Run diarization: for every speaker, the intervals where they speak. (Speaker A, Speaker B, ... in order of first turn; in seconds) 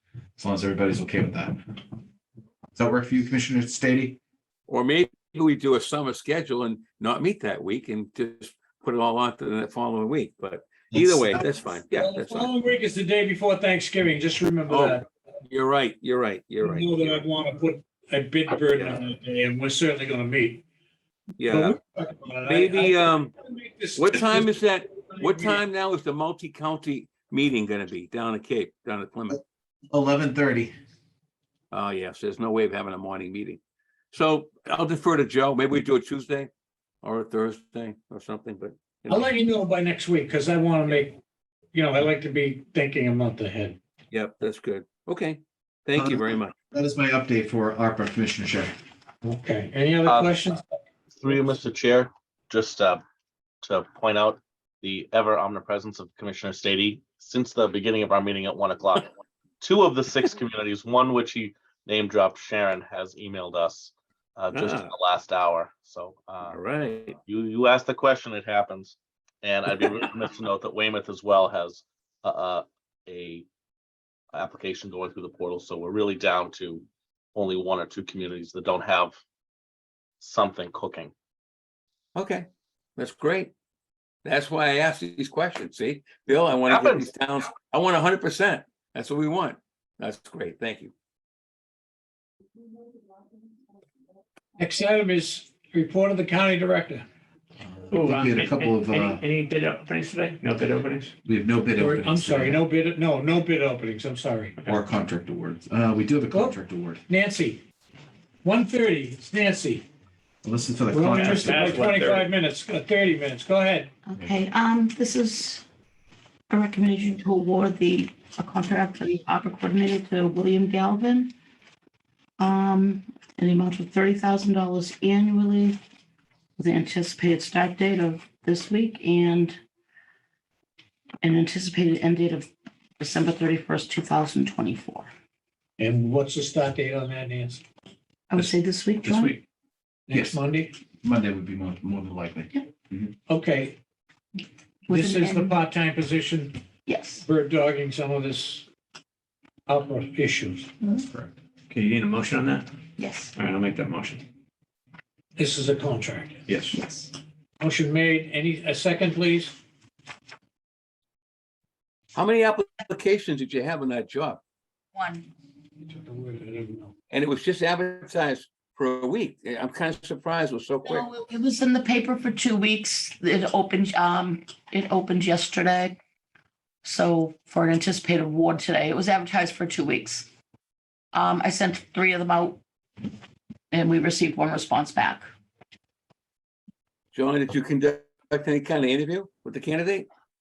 Speaker A: 0.4-1.6, 2.8-4.2, 10.9-11.4, 29.9-30.7, 46.0-48.7, 97.6-99.2, 101.2-102.6, 104.6-107.0, 110.4-111.9, 140.1-140.4, 141.0-143.1, 151.1-151.3
Speaker B: 4.7-12.5, 14.7-17.2, 18.7-19.0, 21.4-21.8, 22.5-23.3, 23.9-29.4, 31.7-33.6, 34.1-36.5, 37.0-39.2, 44.1-46.5, 64.5-64.9, 66.4-67.2, 82.1-83.5, 84.2-90.9, 162.1-164.4, 167.1-171.1, 187.1-190.1
Speaker C: 11.9-15.0, 16.6-20.6, 21.5-25.6, 39.1-41.2, 41.7-43.8, 49.2-50.6, 94.6-97.0, 101.7-104.6, 106.3-107.6, 108.4-109.8, 110.9-113.9, 135.8-137.6, 140.1-140.7, 143.3-143.8, 144.9-146.6, 147.2-148.7, 149.7-150.7, 155.4-156.6, 157.6-159.6, 165.9-166.9
Speaker D: 50.0-50.4, 51.1-53.0, 53.6-66.6, 67.2-73.4, 74.3-79.2, 80.2-81.1, 86.7-87.1
Speaker E: 97.9-101.1, 111.2-112.3, 151.7-152.7, 153.3-154.2, 156.5-156.8
Speaker F: 114.1-115.6, 116.5-121.3, 122.4-125.8, 126.6-129.6, 131.2-132.5, 133.0-135.1, 138.3-139.4, 144.9-145.6, 146.9-147.2, 153.0-153.3, 156.7-157.1, 164.9-165.3, 170.8-176.0, 176.8-180.3, 181.1-182.6, 183.7-185.3